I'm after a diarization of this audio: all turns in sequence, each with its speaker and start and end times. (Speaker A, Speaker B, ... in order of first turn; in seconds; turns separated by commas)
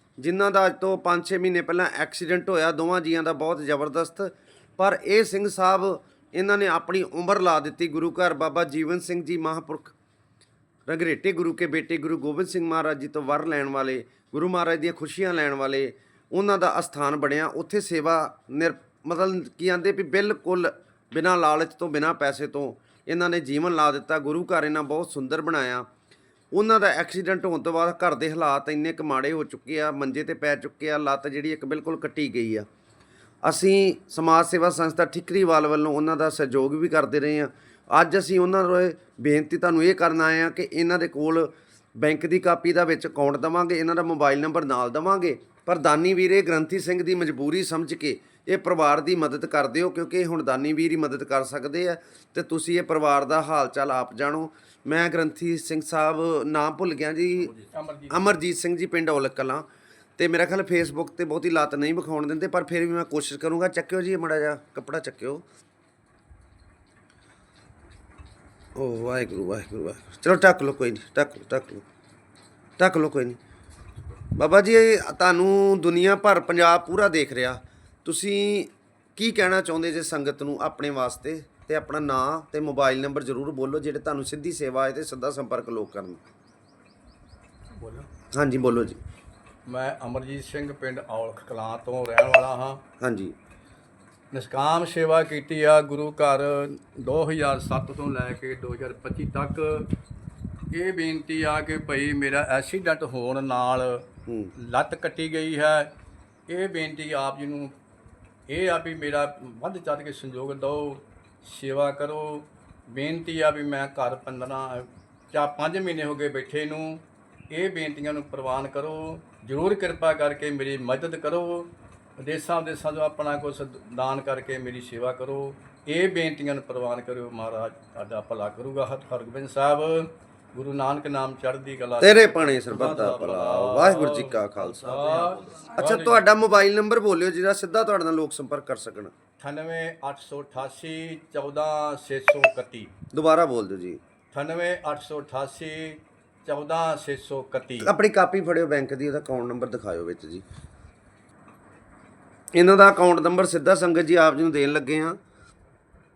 Speaker A: 0.2-9.9, Speaker A: 10.9-25.9, Speaker A: 26.5-32.7, Speaker A: 33.4-57.5, Speaker B: 57.4-58.3, Speaker A: 58.1-59.6, Speaker A: 60.2-65.4, Speaker A: 68.8-71.8, Speaker A: 72.8-73.4, Speaker A: 74.4-86.2, Speaker B: 87.8-88.1, Speaker A: 88.3-89.0, Speaker B: 89.7-92.8, Speaker A: 93.0-93.3, Speaker B: 94.3-99.9, Speaker B: 100.7-105.9, Speaker A: 104.3-104.5, Speaker B: 106.5-107.7, Speaker B: 108.5-136.3, Speaker A: 132.0-139.1, Speaker B: 139.4-142.9, Speaker A: 143.1-144.0, Speaker B: 144.3-147.9, Speaker A: 147.8-150.4, Speaker A: 152.5-155.2